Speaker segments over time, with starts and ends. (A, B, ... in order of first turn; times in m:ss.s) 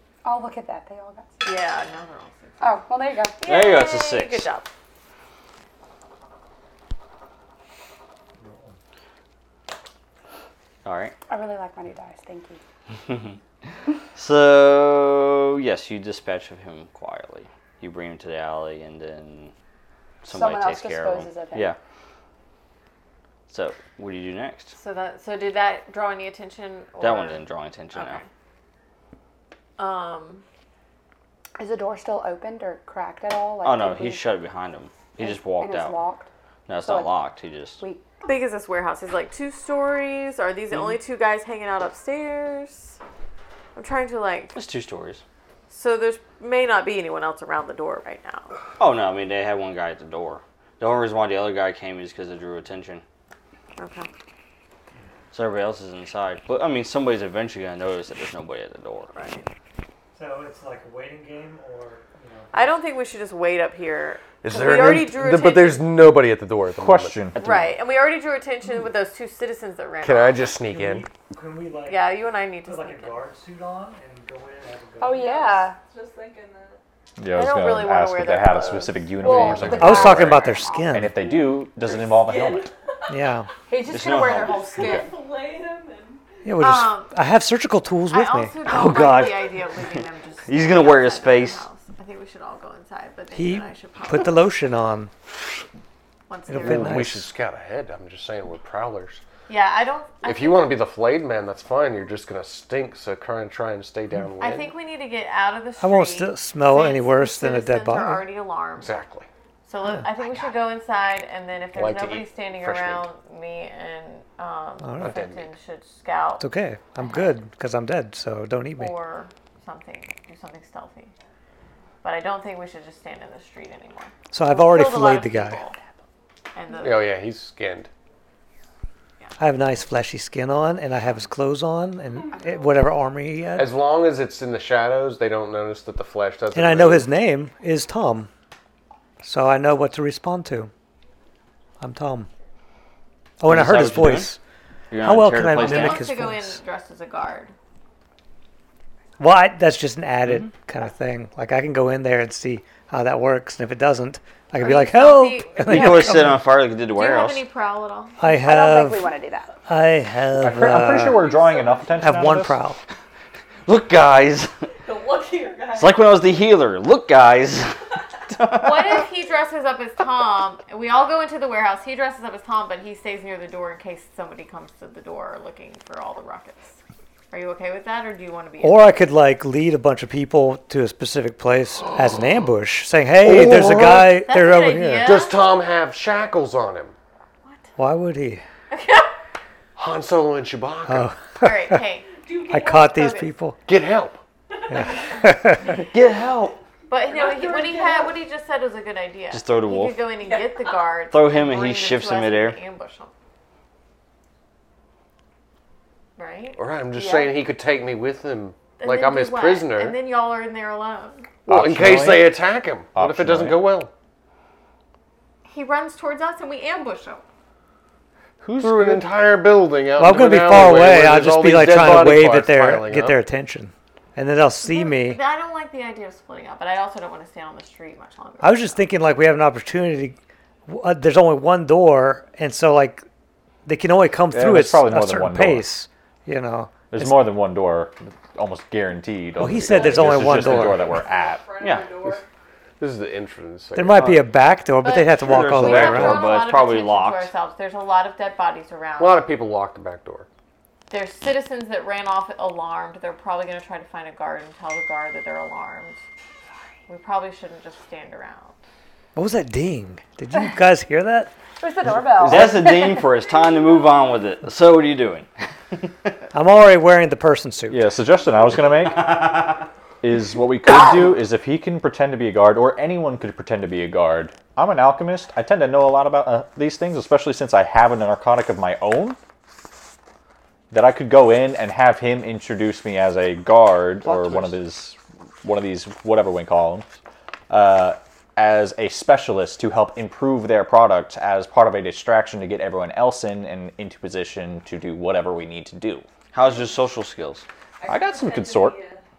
0:00.2-0:01.5 A
0:01.4-0:02.8 B
0:02.6-0:03.4 A
0:03.4-0:04.7 B
0:03.4-0:04.5 C
0:10.8-0:11.1 C
0:11.3-0:12.6 A
0:14.1-0:19.5 C
0:20.2-0:21.8 C
0:20.3-0:21.7 A
0:23.5-0:24.7 C
0:24.7-0:27.4 B
0:27.0-0:28.2 C
0:27.9-0:28.3 B
0:29.8-0:30.4 B
0:31.6-0:34.2 A
0:33.6-0:36.0 C
0:35.2-0:36.3 A
0:36.7-0:37.8 C
0:36.8-0:37.1 A
0:37.8-0:38.0 A
0:38.2-0:43.0 B
0:43.8-0:44.6 B
0:44.5-0:45.2 C
0:45.7-0:48.5 B
0:48.8-0:53.0 C
0:53.8-0:54.1 B
0:55.3-0:59.1 C
0:59.1-0:59.4 B
1:00.1-1:02.6 D
1:02.5-1:05.8 B
1:04.4-1:07.2 E
1:06.8-1:07.4 F
1:07.4-1:07.7 C
1:07.4-1:10.6 B
1:10.0-1:11.1 E
1:10.7-1:12.1 D
1:11.8-1:13.2 B
1:12.6-1:15.2 D
1:15.0-1:15.8 A
1:15.1-1:16.8 G
1:17.2-1:22.7 F
1:17.3-1:19.7 B
1:19.2-1:21.3 A
1:19.7-1:21.2 D
1:21.2-1:23.3 G
1:23.1-1:23.5 D
1:23.7-1:25.2 A
1:23.9-1:25.0 C
1:24.2-1:26.2 G
1:26.4-1:28.5 D
1:26.6-1:27.1 B
1:28.1-1:34.4 B
1:28.6-1:29.7 C
1:30.5-1:31.6 C
1:33.3-1:35.1 D
1:36.3-1:37.1 B
1:36.5-1:37.3 D
1:36.6-1:39.2 E
1:39.5-1:40.7 B
1:40.2-1:44.7 E
1:44.4-1:48.9 B
1:45.8-1:48.3 D
1:48.8-1:49.3 E
1:49.6-1:56.4 B
1:51.7-1:53.1 E
1:54.8-1:55.2 D
1:55.0-1:55.5 E
1:56.4-1:58.9 D
1:57.0-1:57.3 B
1:58.8-2:01.1 B
2:02.0-2:05.8 B
2:04.3-2:05.6 D
2:06.5-2:07.1 B
2:06.8-2:07.9 E
2:09.4-2:13.7 D
2:13.6-2:17.1 E
2:16.5-2:18.3 D
2:19.2-2:20.7 D
2:21.8-2:22.3 D
2:23.4-2:24.4 D
2:23.5-2:24.3 C
2:24.9-2:26.0 C
2:25.0-2:26.6 D
2:25.5-2:27.5 B
2:29.2-2:36.4 D
2:34.6-2:36.4 B
2:35.7-2:37.4 C
2:36.9-2:38.1 B
2:38.2-2:39.1 D
2:38.3-2:39.5 A
2:39.6-2:41.2 D
2:40.4-2:42.6 F
2:41.0-2:42.0 G
2:42.0-2:42.8 D
2:43.6-2:44.5 C
2:44.8-2:46.0 G
2:45.8-2:47.8 C
2:48.3-2:49.0 C
2:48.5-2:56.8 B
2:57.3-2:59.0 B
2:58.6-3:05.1 D
3:03.2-3:04.2 E
3:04.2-3:05.4 B
3:05.0-3:07.0 E
3:07.4-3:07.7 B
3:07.8-3:08.4 D
3:08.7-3:09.1 B
3:09.8-3:11.1 E
3:10.9-3:11.8 D
3:11.4-3:13.3 B
3:12.2-3:12.9 G
3:12.5-3:13.6 D
3:13.6-3:14.2 E
3:14.7-3:15.8 D
3:14.7-3:15.2 G
3:15.6-3:16.6 C
3:16.9-3:23.1 B
3:17.1-3:18.2 G
3:19.3-3:20.0 C
3:20.2-3:20.7 G
3:21.1-3:22.6 C
3:26.2-3:27.3 B
3:26.6-3:30.0 E
3:28.8-3:31.3 B
3:31.5-3:33.9 E
3:31.5-3:32.4 F
3:33.0-3:33.6 F
3:35.5-3:37.2 B
3:38.4-3:39.1 F
3:38.6-3:43.2 E
3:40.0-3:45.2 D
3:44.6-3:48.8 B
3:48.4-3:50.2 D
3:50.7-3:53.0 D
3:53.6-3:57.3 D
3:54.3-3:55.7 F
3:56.9-4:01.4 F
3:59.4-4:00.8 D
3:59.6-4:02.2 G
4:01.6-4:01.9 C
4:02.8-4:04.2 E
4:03.8-4:06.4 D
4:04.8-4:09.2 B
4:05.2-4:07.3 C
4:09.0-4:10.3 E
4:10.9-4:16.0 B
4:16.9-4:18.6 B
4:19.1-4:21.3 D
4:21.6-4:23.1 A
4:22.2-4:26.2 C
4:26.3-4:27.8 D
4:27.7-4:29.5 F
4:29.0-4:29.6 C
4:30.0-4:39.2 F
4:40.7-4:46.9 F
4:47.5-4:56.1 F
4:56.3-4:57.5 C
4:57.8-4:59.0 G
4:57.9-4:58.8 F